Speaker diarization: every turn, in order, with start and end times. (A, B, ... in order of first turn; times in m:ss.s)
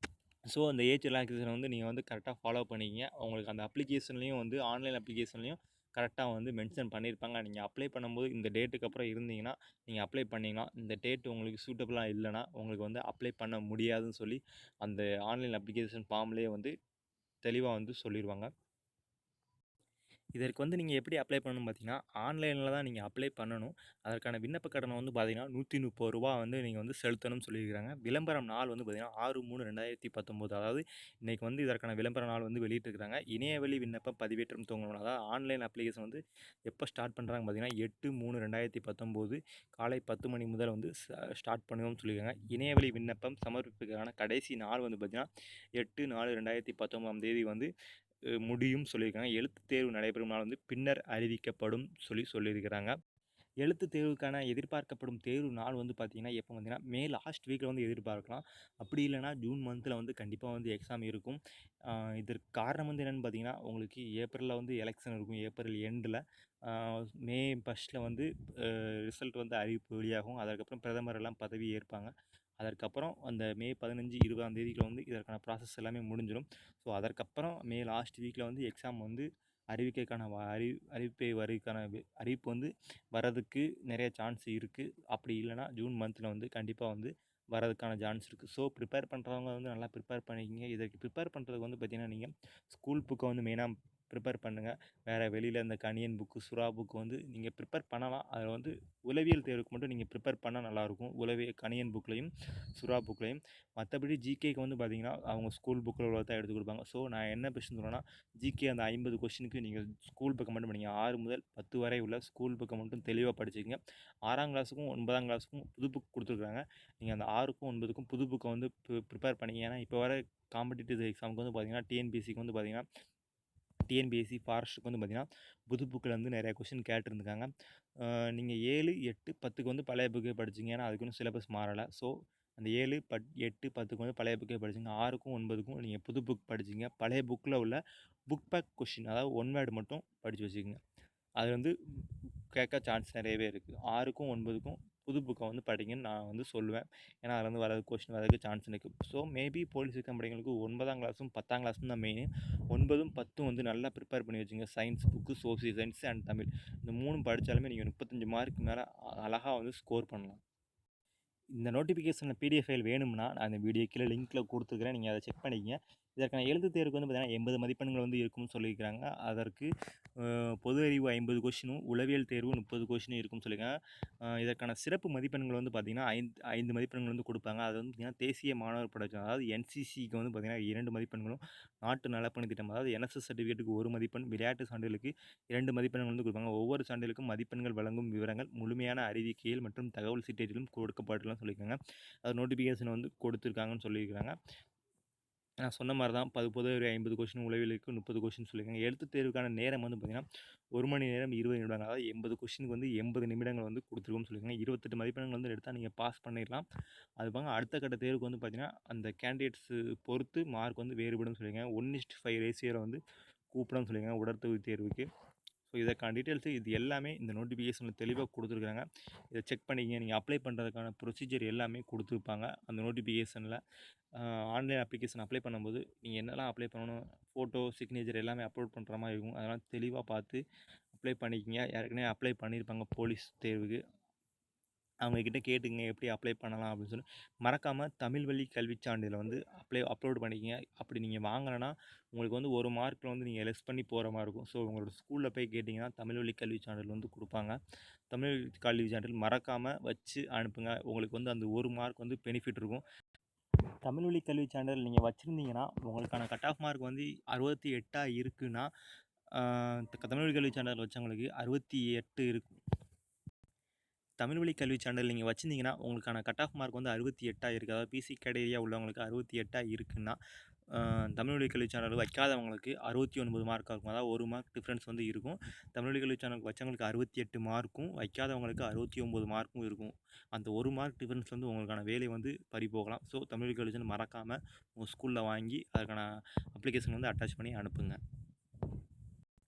0:00.5-0:16.7 A
0:17.4-0:18.5 A
0:20.4-0:47.7 A
0:48.4-0:52.9 A
0:53.6-2:02.8 A
2:03.9-2:07.5 A
2:08.0-2:17.8 A
2:18.3-2:20.8 A
2:21.4-2:40.4 A
2:41.6-2:53.7 A
2:54.3-3:14.3 A
3:15.6-3:26.6 A
3:27.2-3:33.0 A
3:33.5-3:35.0 A
3:35.7-3:43.6 A
3:44.2-3:50.4 A
3:50.9-3:53.8 A
3:55.0-4:07.6 A
4:08.1-4:12.8 A
4:13.8-4:18.7 A
4:19.3-4:22.6 A
4:24.2-4:30.2 A
4:30.7-4:48.0 A